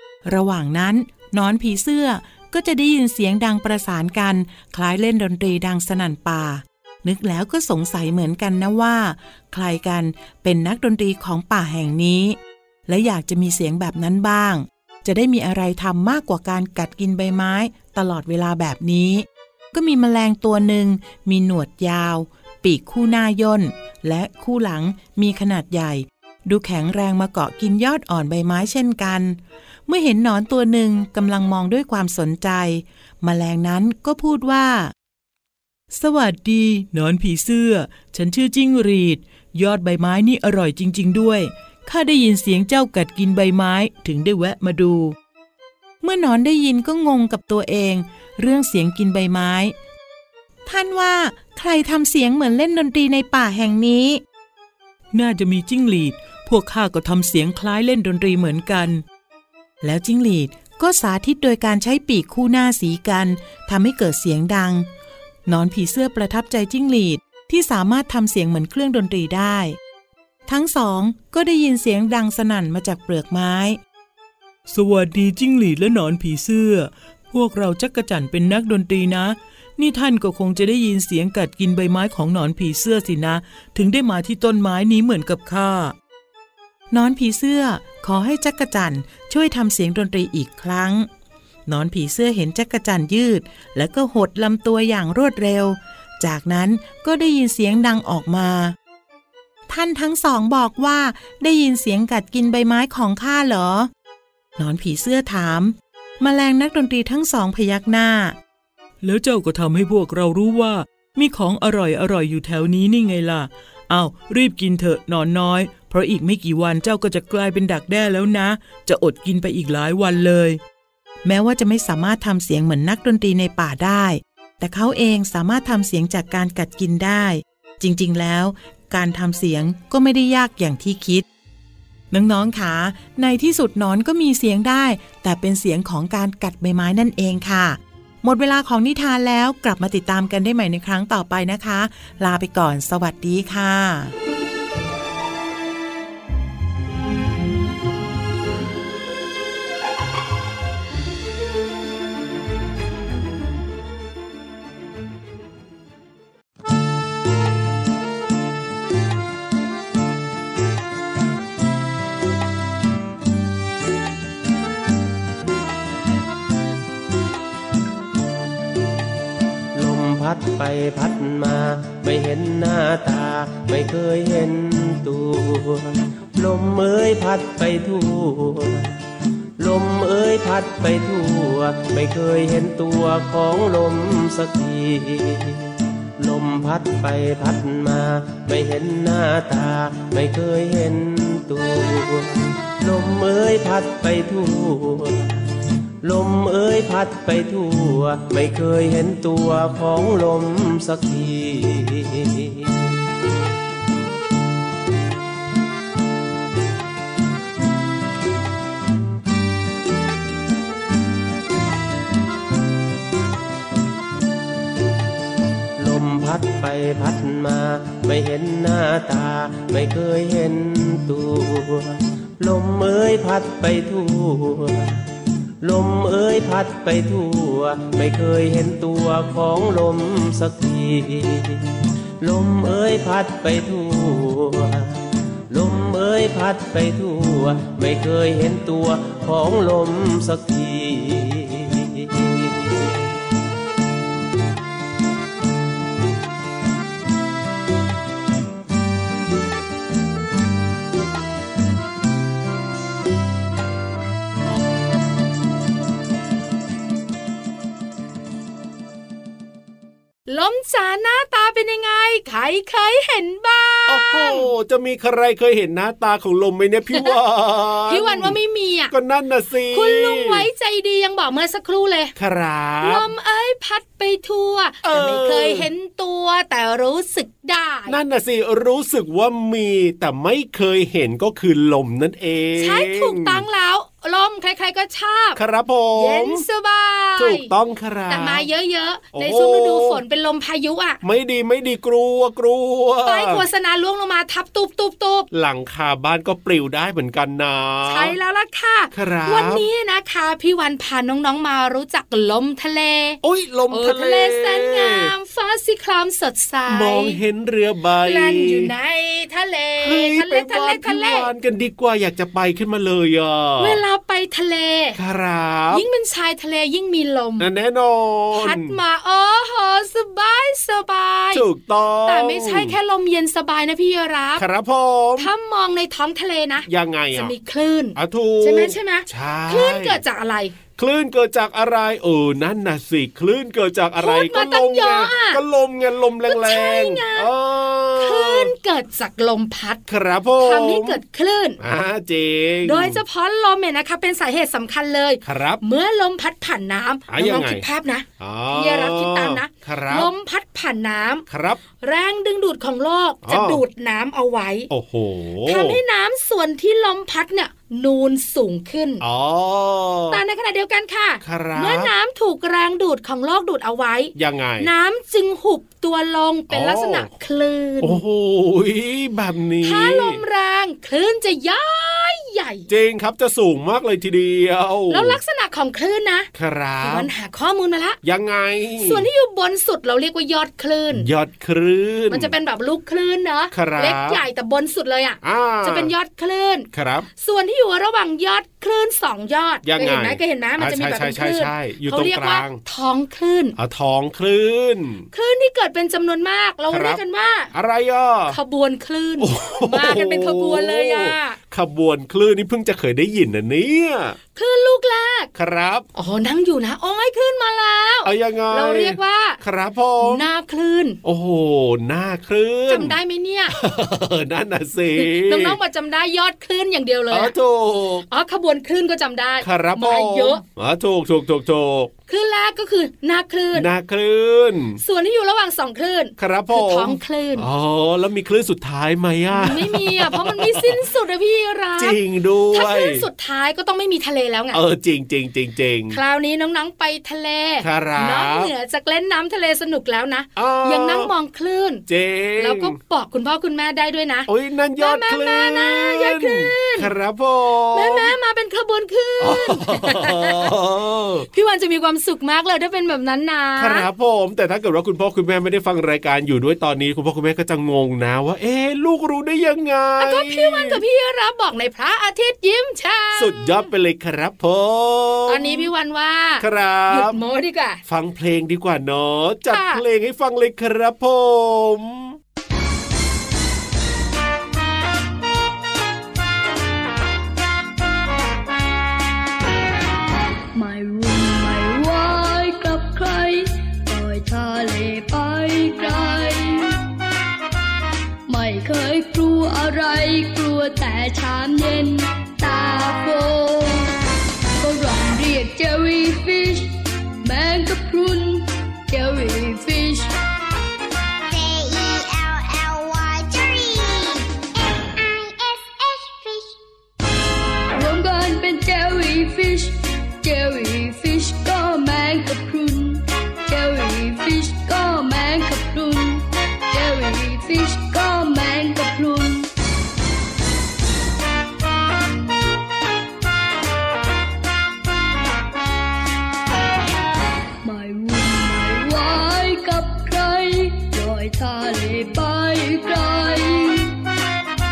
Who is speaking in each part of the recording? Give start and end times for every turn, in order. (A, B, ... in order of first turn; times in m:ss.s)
0:00.2-0:34.9 A
0:35.9-0:45.2 A
0:46.0-0:49.8 A
0:50.7-0:54.2 A
0:55.1-0:59.0 A
0:59.8-1:04.9 A
1:05.5-1:09.8 A
1:10.5-1:13.8 A
1:14.7-1:26.0 A
1:26.9-1:31.1 A
1:31.7-1:38.8 A
1:39.7-1:43.9 A
1:44.6-1:48.4 A
1:49.0-2:00.6 A
2:01.2-2:11.3 A
2:12.1-2:24.1 A
2:49.8-2:58.9 B
2:59.6-3:15.3 B
3:16.0-3:22.8 B
3:35.8-3:44.9 B
3:45.6-3:51.7 B
3:52.2-3:55.0 B
3:55.5-4:02.9 B
4:20.3-4:24.5 C
4:23.9-4:28.4 D
4:27.9-4:28.9 C
4:28.9-4:30.5 D
4:29.7-4:32.1 C
4:32.2-4:33.1 D
4:32.8-4:38.0 C
4:34.8-4:35.7 D
4:37.9-4:43.4 D
4:42.6-4:45.4 C
4:45.4-4:46.4 D
4:46.0-4:47.5 C
4:47.2-4:48.4 D
4:48.1-4:51.0 C
4:49.1-4:50.0 D
4:51.0-4:53.4 D
4:53.1-4:55.3 C
4:55.3-4:58.1 D
4:57.9-5:03.2 C
4:58.9-4:59.7 D
5:03.2-5:05.1 D
5:03.7-5:07.2 C
5:06.7-5:08.7 D
5:08.0-5:11.3 C
5:09.8-5:13.8 D
5:13.6-5:15.0 C
5:15.0-5:15.8 D
5:15.7-5:17.5 C
5:17.4-5:18.8 D
5:18.3-5:21.4 C
5:21.3-5:22.8 D
5:22.1-5:24.4 C
5:24.4-5:25.3 D
5:25.2-5:30.6 C
5:26.6-5:27.3 D
5:28.0-5:30.0 D
5:30.8-5:38.5 D
5:34.0-5:35.4 C
5:36.3-5:37.3 C
5:38.0-5:39.8 C
5:39.9-5:41.0 D
5:40.4-5:41.6 C
5:41.6-5:43.0 D
5:42.6-5:51.2 C
5:45.2-5:45.6 D
5:47.1-5:47.6 D
5:48.2-5:50.1 D
5:51.3-5:51.6 D
5:51.8-5:54.7 C
5:53.2-5:53.6 D
5:54.7-5:55.8 D
5:55.5-5:59.0 C
5:59.0-6:00.2 D
6:00.1-6:08.0 C
6:01.2-6:01.9 D
6:04.2-6:04.7 D
6:06.5-6:07.1 D
6:07.8-6:10.2 D
6:09.6-6:12.7 C
6:12.7-6:15.2 D
6:14.9-6:16.3 C
6:16.4-6:17.1 D
6:16.8-6:18.0 C
6:18.0-6:19.0 D
6:18.8-6:21.1 C
6:20.9-6:22.3 D
6:22.1-6:33.6 C
6:23.5-6:24.2 D
6:25.2-6:25.9 D
6:26.7-6:27.1 D
6:29.6-6:32.6 D
6:33.6-6:35.1 D
6:35.1-6:37.5 C
6:36.7-6:37.0 D
6:37.5-6:38.4 D
6:38.3-6:41.4 C
6:39.2-6:44.2 D
6:44.4-6:45.3 C
6:45.4-6:45.9 D
6:46.0-6:49.4 C
6:48.0-6:50.2 D
6:50.0-6:51.0 C
6:51.0-6:53.0 D
6:52.7-6:53.6 C
6:53.5-6:55.6 D
6:55.0-6:57.3 C
6:57.1-6:58.1 D
6:58.1-7:00.4 C
6:59.4-7:01.9 D
7:02.1-7:03.7 C
7:03.5-7:04.8 D
7:04.8-7:07.5 C
7:06.2-7:10.8 D
7:09.3-7:12.0 C
7:11.8-7:13.1 D
7:12.5-7:14.6 C
7:14.5-7:16.0 D
7:15.9-7:21.8 C
7:17.6-7:18.5 D
7:20.4-7:21.1 D
7:21.9-7:22.8 D
7:22.4-7:26.9 C
7:24.3-7:28.1 D
7:27.7-7:30.5 C
7:29.2-7:31.3 D
7:31.3-7:33.9 C
7:33.6-7:40.8 D
7:40.0-7:43.7 C
7:43.2-7:45.7 D
7:45.3-7:47.8 C
7:46.4-7:47.2 D
7:47.9-7:52.2 D
7:49.5-7:49.8 C
8:00.5-8:06.8 E
8:08.3-8:13.9 E
8:14.6-8:20.1 E
8:21.3-8:26.5 F
8:27.8-8:39.5 E
8:47.6-8:54.0 E